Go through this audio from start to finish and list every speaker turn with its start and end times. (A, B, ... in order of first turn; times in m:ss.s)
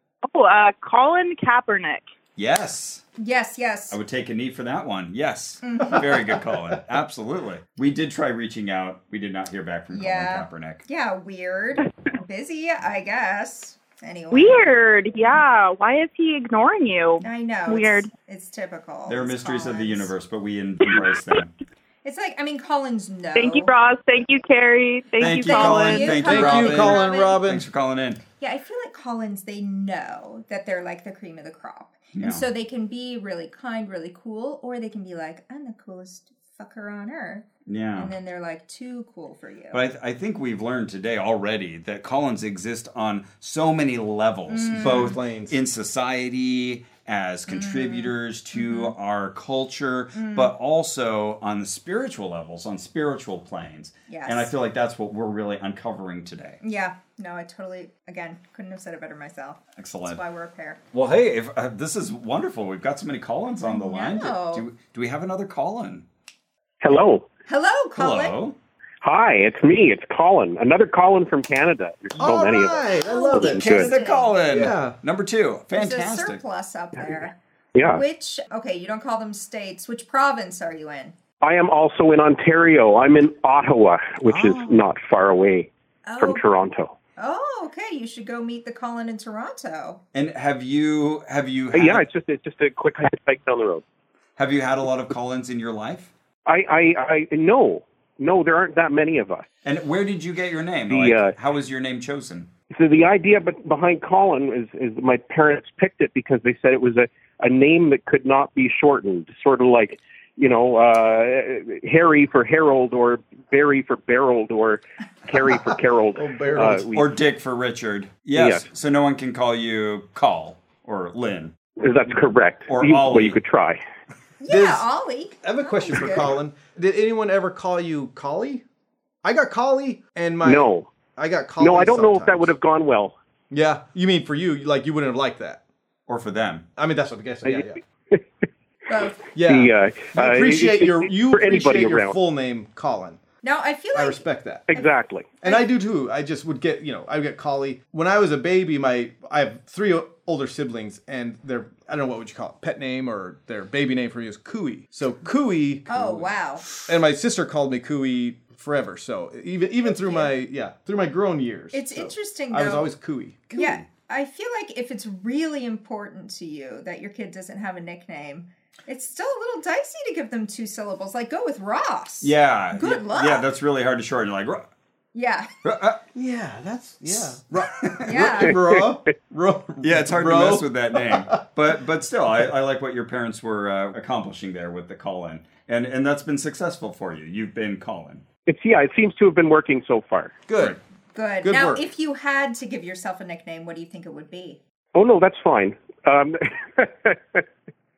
0:00.2-0:02.0 A
0:02.4-0:03.0 B
0:03.2-0:04.0 C
0:03.9-0:10.8 B
0:05.6-0:06.1 C
0:09.9-0:14.6 C
0:14.3-0:18.1 A
0:17.2-0:20.1 C
0:19.1-0:21.5 B
0:22.0-0:23.7 C
0:23.4-0:26.2 A
0:25.2-0:28.2 B
0:25.4-0:27.4 C
0:26.1-0:27.7 D
0:28.4-0:39.8 C
0:32.1-0:32.4 B
0:37.6-0:38.1 B
0:39.7-0:56.6 B
0:44.5-0:45.2 C
0:44.7-0:45.6 D
0:47.5-0:48.9 C
0:50.1-0:50.5 C
0:54.1-0:54.5 C
0:56.6-1:00.8 C
0:59.8-1:00.2 B
1:00.9-1:06.0 B
1:03.6-1:04.6 C
1:06.8-1:07.2 E
1:07.5-1:08.3 C
1:08.0-1:08.6 B
1:09.0-1:12.9 E
1:12.2-1:13.9 D
1:13.0-1:14.3 C
1:13.4-1:13.9 E
1:13.5-1:16.4 B
1:14.5-1:15.0 D
1:15.7-1:21.1 C
1:17.7-1:18.0 E
1:21.4-1:27.0 E
1:24.3-1:24.8 D
1:26.0-1:26.4 C
1:27.2-1:30.0 C
1:30.1-1:32.0 B
1:31.7-1:33.8 E
1:34.4-1:36.1 B
1:36.4-1:39.4 E
1:39.6-1:42.5 B
1:40.9-1:41.3 E
1:42.7-1:57.1 E
1:56.1-1:56.9 D
1:56.9-2:01.5 B
1:58.4-1:58.6 E
2:01.8-2:03.8 E
2:02.7-2:03.4 B
2:04.4-2:06.3 C
2:04.5-2:04.9 D
2:05.4-2:08.6 D
2:09.2-2:12.5 D
2:10.4-2:10.9 E
2:11.6-2:13.1 E
2:13.5-2:15.6 D
2:16.1-2:16.6 B
2:16.8-2:17.8 D
2:17.4-2:18.2 E
2:18.9-2:19.2 C
2:19.3-2:23.2 D
2:19.4-2:22.2 E
2:23.4-2:25.7 C
2:23.9-2:24.7 D
2:24.7-2:25.4 E
2:25.4-2:36.2 D
2:35.9-2:36.6 C
2:36.8-2:43.5 D
2:39.8-2:40.3 C
2:41.7-2:42.9 C
2:43.5-2:43.8 B
2:43.5-2:53.4 C
2:52.2-2:54.6 B
2:55.1-2:55.5 C
2:55.6-2:56.0 B
2:56.1-3:01.3 D
2:58.0-2:58.6 C
2:58.5-2:58.9 E
2:59.8-3:08.2 B
3:08.4-3:10.4 E
3:10.5-3:10.8 D
3:11.1-3:14.6 C
3:11.4-3:11.8 D
3:14.9-3:17.4 E